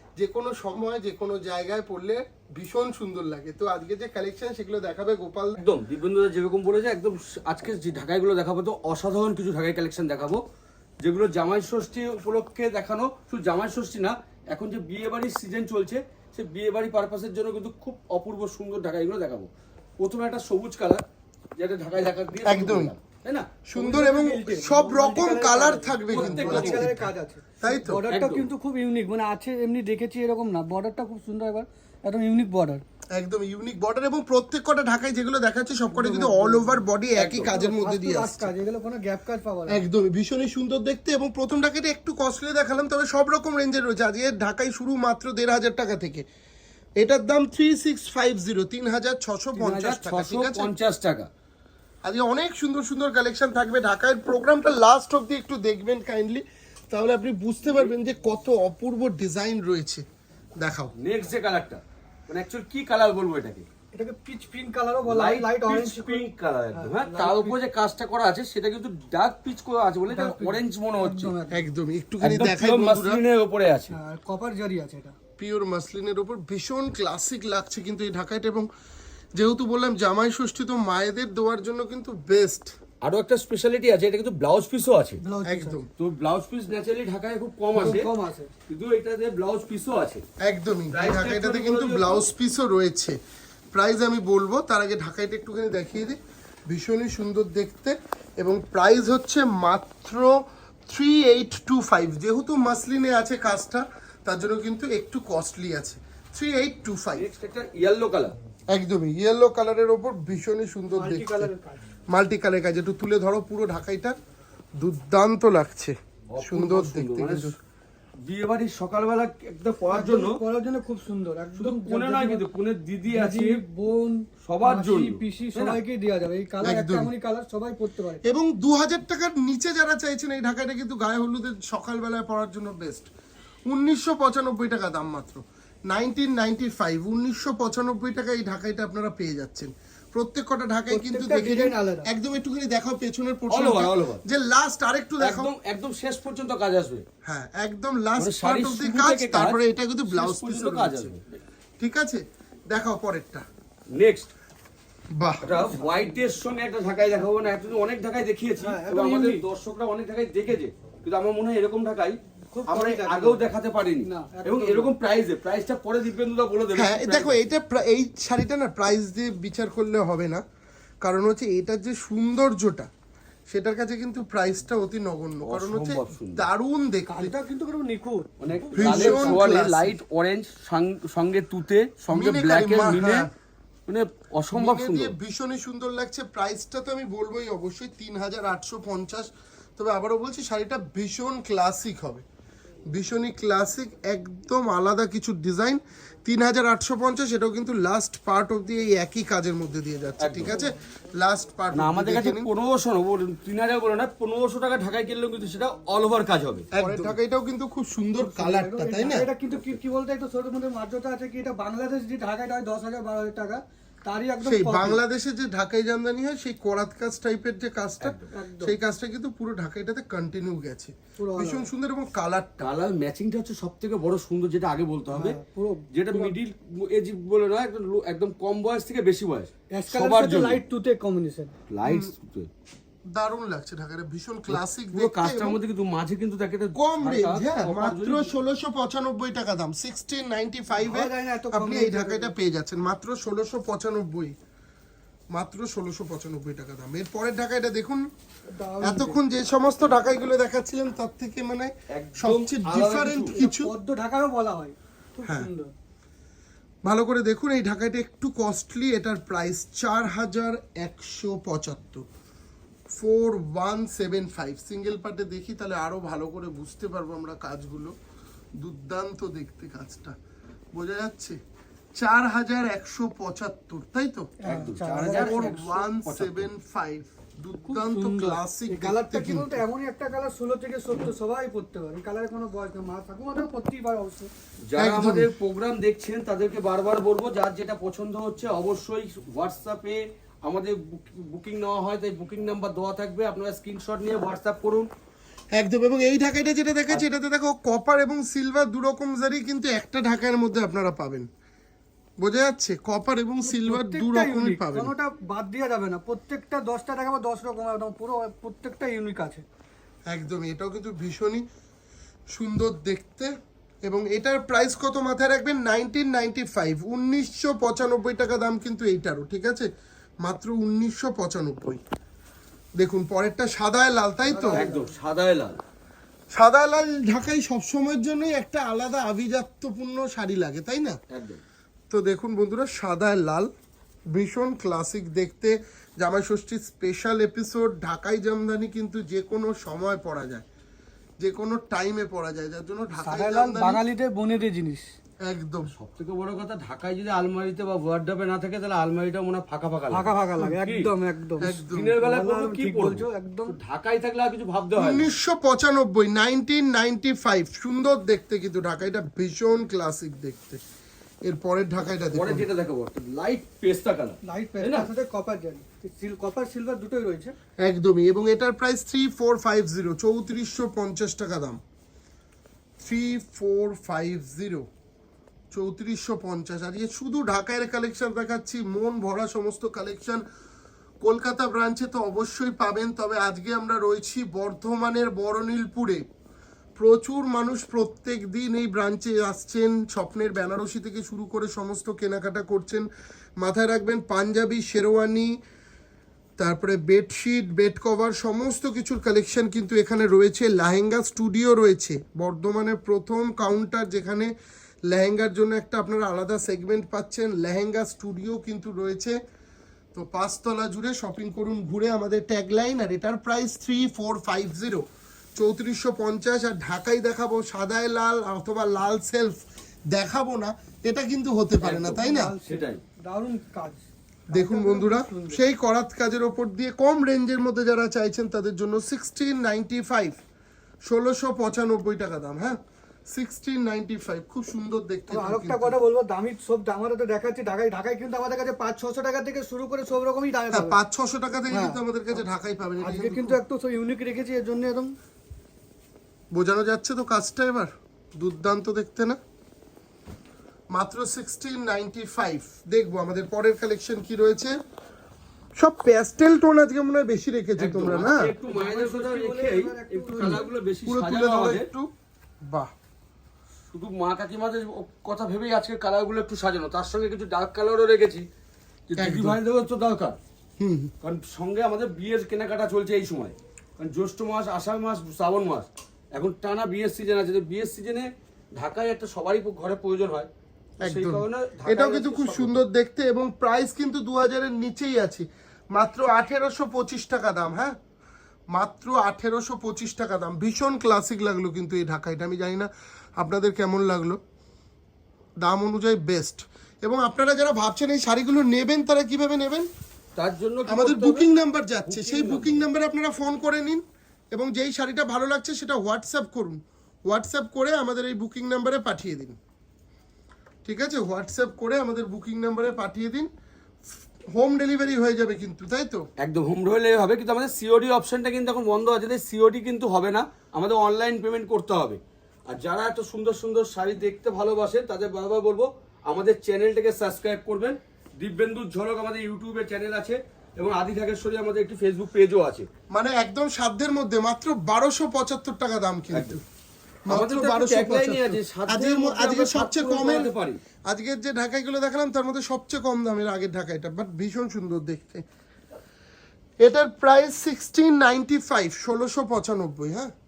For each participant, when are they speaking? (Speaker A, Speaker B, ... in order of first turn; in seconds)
Speaker A: 0.2-5.6, 22.4-22.9, 23.7-28.1, 33.1-38.5, 39.7-46.2, 47.0-50.7, 52.0-60.0, 60.6-60.9, 71.5-73.2, 75.4-78.7, 79.3-82.7, 85.4-85.9, 90.4-93.2, 93.7-96.2, 96.7-100.3, 100.9-107.3, 108.7-111.5, 112.1-114.2, 114.8-117.6, 126.6-127.1, 128.2-133.1, 133.7-145.5, 147.2-151.2, 151.8-153.4, 155.2-155.5, 166.7-170.4, 171.0-172.9, 173.5-177.3, 178.8-180.0, 182.1-183.3, 184.5-192.2, 192.9-202.5, 206.7-209.3, 214.4-222.7, 231.8-232.1, 233.1-235.6, 236.7-244.3, 245.3-248.1, 248.8-253.7, 255.2-255.5, 256.9-262.0, 263.0-267.9, 268.6-270.2, 270.7-271.4, 272.0-279.6, 284.8-285.3, 295.6-301.3, 302.2-304.9, 310.1-311.4, 312.3-313.3, 313.9-319.7, 320.2-321.8, 322.8-324.7, 326.3-331.0, 331.9-333.5, 334.1-340.4, 341.2-343.8, 345.2-345.7, 351.4-351.9, 354.8-360.6, 361.2-362.5, 367.6-371.6, 372.8-374.7, 375.5-380.2, 381.0-386.0, 386.8-392.9, 393.4-395.3, 396.4-404.3, 404.9-409.2, 409.9-414.9, 415.4-422.4, 424.3-430.2, 430.9-432.6, 433.1-435.8, 440.5-443.4, 446.3-449.2, 450.7-454.6, 455.6-458.3, 460.2-461.9, 469.0-469.4, 470.6-470.9, 480.8-487.8, 488.5-494.2, 495.4-499.7, 500.7-509.4, 510.6-513.3, 514.3-516.0, 532.9-536.4, 537.1-540.3, 540.9-545.2, 546.6-550.1
Speaker B: 5.6-10.4, 11.0-19.5, 20.0-21.0, 21.6-23.5, 26.1-26.9, 28.1-28.5, 37.2-37.5, 49.6-51.3, 61.0-63.7, 65.1-71.3, 72.2-74.0, 83.0-85.2, 86.0-88.1, 88.7-90.2, 90.9-92.3, 107.2-108.3, 116.3-117.5, 118.2-120.4, 121.6-123.6, 124.4-125.8, 143.5-144.2, 145.2-147.0, 148.2-151.4, 153.9-154.3, 155.4-167.4, 175.4-176.5, 178.4-183.3, 183.9-185.2, 200.2-200.6, 201.7-206.7, 218.0-218.3, 222.6-225.4, 225.9-230.6, 231.7-232.5, 234.5-238.3, 251.9-253.4, 274.5-276.5, 284.7-294.9, 324.6-325.6, 331.1-331.4, 345.7-350.9, 351.6-355.1, 362.0-364.9, 421.6-422.8, 457.6-461.7, 463.7-468.3, 468.9-470.2, 471.0-480.3, 480.8-482.6, 500.2-501.3, 501.9-502.7, 516.2-522.0, 522.5-532.7, 536.1-536.4, 537.1-540.6
Speaker C: 23.8-32.8, 35.9-36.8, 37.4-39.9, 63.9-67.6, 70.1-71.6, 73.9-75.2, 85.2-85.8, 87.8-88.5, 110.9-111.9, 119.9-122.4, 123.1-128.2, 140.9-142.1, 158.6-159.4, 162.5-163.4, 164.0-164.9, 177.1-179.4, 208.2-215.0, 218.3-218.8, 221.2-221.7, 225.1-226.3, 229.7-231.5, 240.8-242.3, 248.5-249.2, 253.3-255.7, 274.4-275.6, 277.7-284.3, 303.4-309.4, 324.2-324.9, 343.0-344.9, 349.9-353.6, 364.2-367.4, 422.0-425.4, 435.1-440.8, 441.5-441.8, 442.8-444.9, 458.4-460.5